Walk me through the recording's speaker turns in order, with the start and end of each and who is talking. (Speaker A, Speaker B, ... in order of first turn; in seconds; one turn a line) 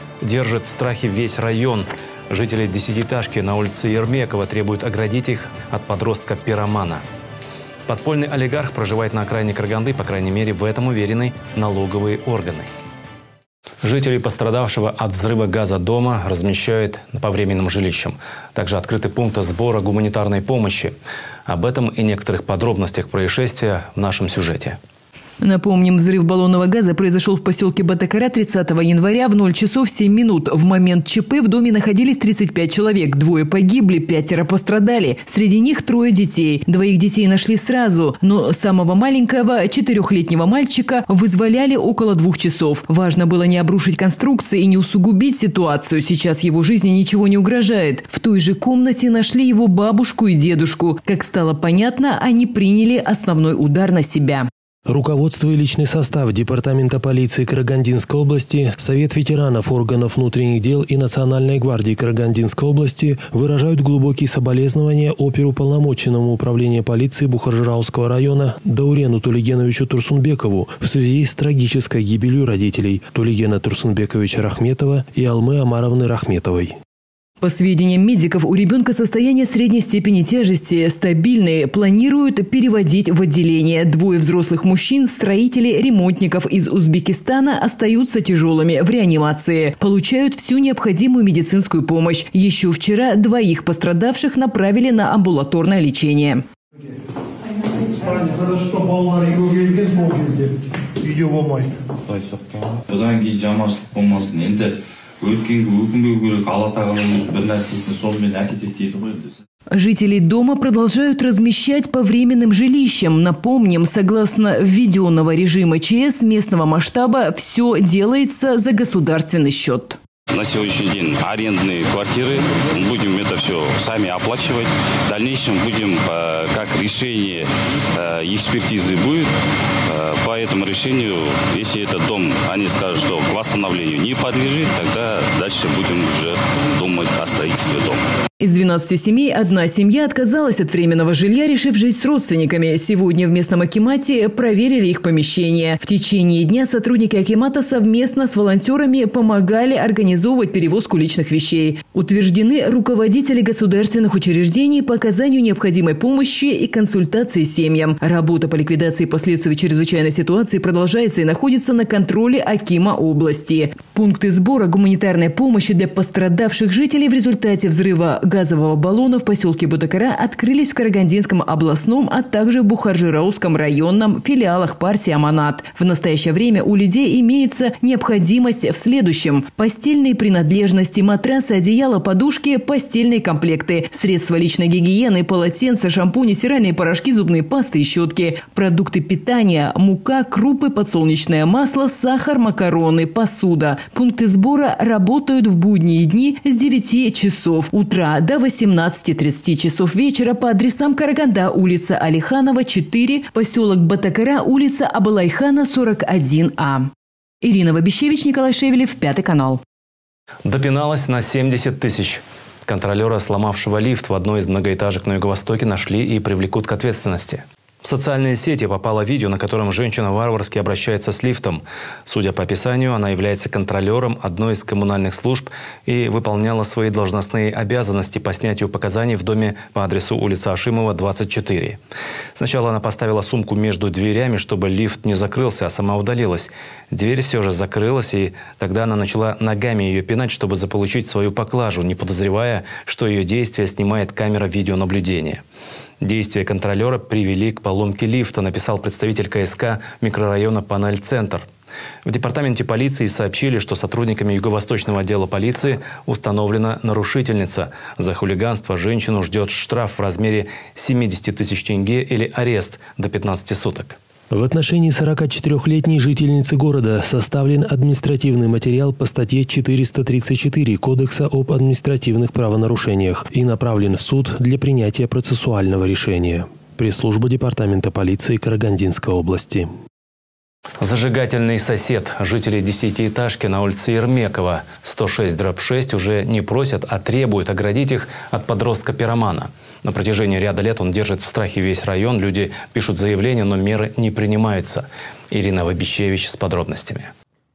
Speaker A: 0.2-7.0
Speaker A: 7.9-12.7
Speaker A: 13.8-21.0
Speaker A: 21.5-24.8
Speaker B: 25.4-54.5
Speaker C: 54.9-76.8
Speaker B: 77.4-96.5
Speaker D: 102.1-109.3
Speaker B: 109.7-120.0
Speaker E: 120.3-129.3
Speaker E: 129.9-138.0
Speaker B: 138.4-206.9
Speaker B: 207.4-209.6
Speaker A: 210.4-231.8
Speaker A: 232.3-245.4
Speaker A: 246.0-251.5
Speaker A: 252.1-264.0
Speaker C: 264.3-279.7
Speaker A: 280.8-297.1